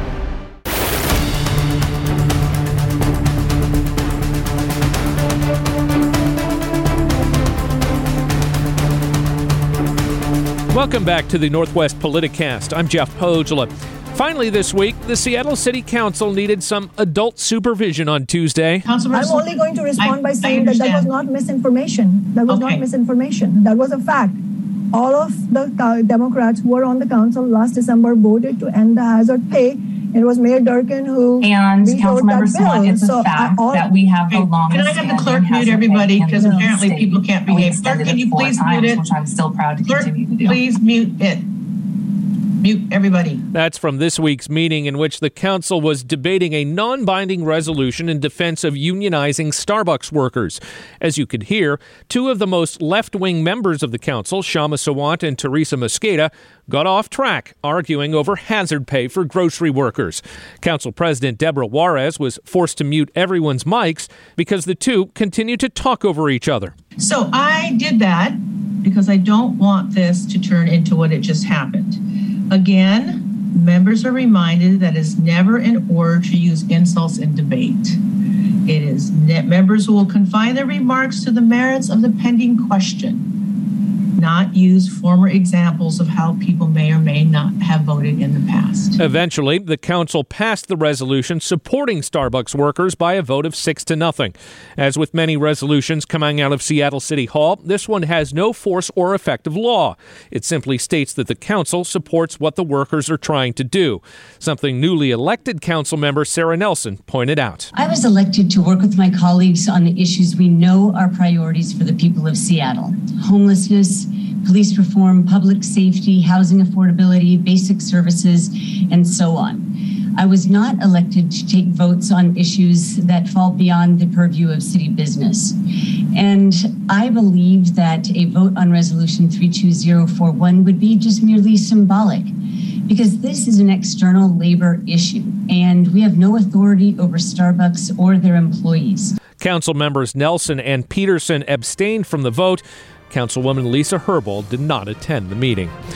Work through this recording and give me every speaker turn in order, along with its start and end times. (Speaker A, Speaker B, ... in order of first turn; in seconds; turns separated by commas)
Speaker A: 10.7-18.8, Speaker B: 18.8-21.1, Speaker C: 19.1-33.9, Speaker B: 22.5-22.8, Speaker D: 31.4-40.6, Speaker B: 34.3-39.1, Speaker C: 36.4-36.7, Speaker B: 39.8-43.4, Speaker A: 43.5-66.7, Speaker B: 67.0-78.0, Speaker B: 78.7-89.0, Speaker A: 89.0-107.7, Speaker E: 107.7-125.6, Speaker E: 126.1-132.3, Speaker E: 132.9-139.2, Speaker A: 139.4-145.7